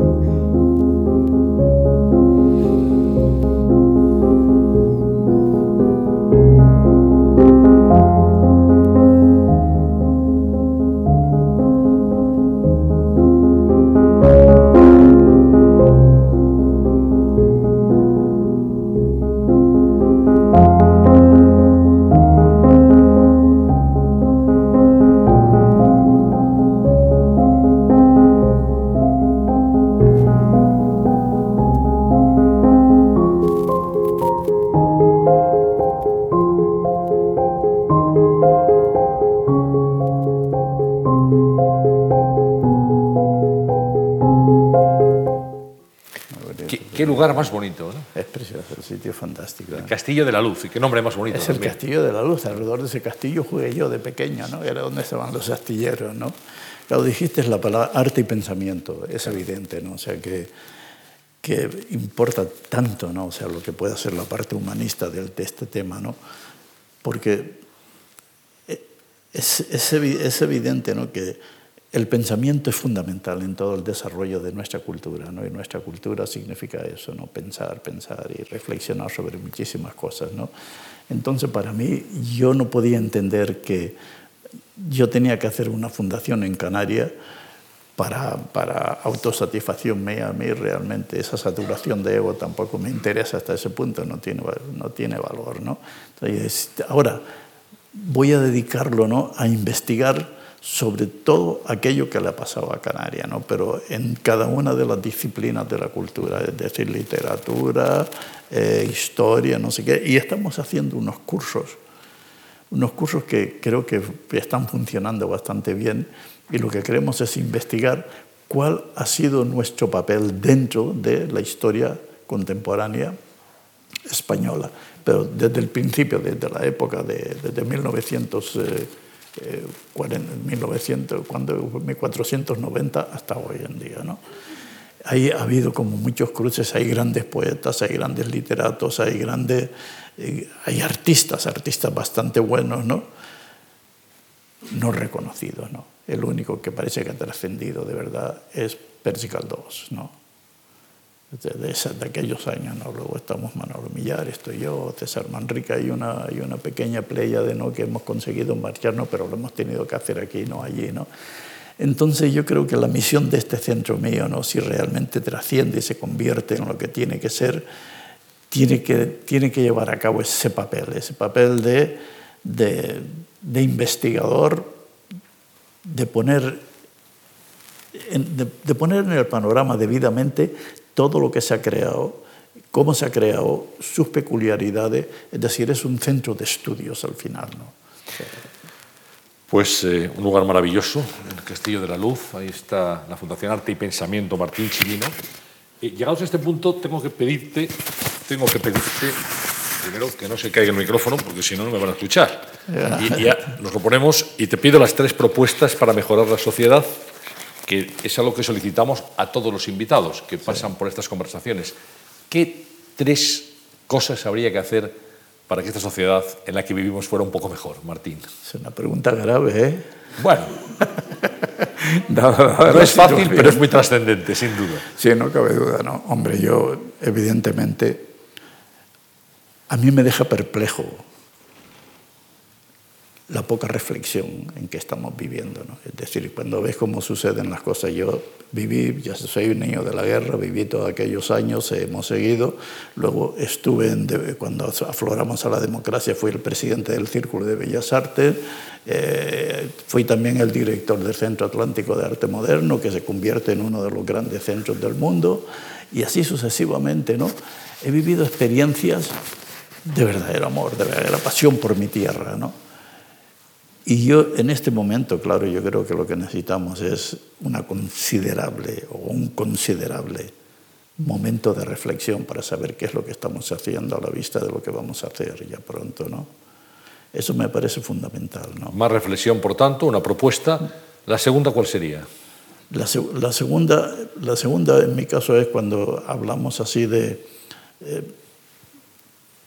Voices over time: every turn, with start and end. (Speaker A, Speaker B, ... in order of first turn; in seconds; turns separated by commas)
Speaker A: 46.3-47.5, Speaker B: 46.7-48.1, Speaker A: 48.1-49.9, Speaker B: 49.7-51.8, Speaker A: 51.3-56.4, Speaker A: 56.9-60.5, Speaker A: 61.4-66.2, Speaker A: 67.0-67.6, Speaker A: 68.7-71.4, Speaker A: 71.9-80.5, Speaker A: 81.1-84.0, Speaker A: 84.8-87.1, Speaker A: 88.0-97.2, Speaker A: 97.9-111.8, Speaker A: 112.7-123.2, Speaker A: 124.1-134.2, Speaker A: 135.1-143.1, Speaker A: 144.7-150.1, Speaker A: 151.3-161.1, Speaker A: 161.8-167.7, Speaker A: 168.5-174.7, Speaker A: 175.8-176.7, Speaker A: 177.9-188.4, Speaker B: 189.5-195.2, Speaker B: 195.8-206.9, Speaker A: 202.7-203.3, Speaker B: 207.7-211.8, Speaker B: 212.3-214.9, Speaker B: 215.5-218.3, Speaker A: 218.4-219.9, Speaker B: 220.2-220.6, Speaker A: 220.8-223.7, Speaker B: 222.6-224.9, Speaker A: 224.9-228.1, Speaker A: 229.7-231.1, Speaker A: 233.3-259.2, Speaker A: 259.8-262.6, Speaker A: 263.8-270.3, Speaker A: 271.0-276.3, Speaker A: 277.1-278.7, Speaker B: 278.7-282.1, Speaker A: 282.7-287.3, Speaker A: 287.8-288.1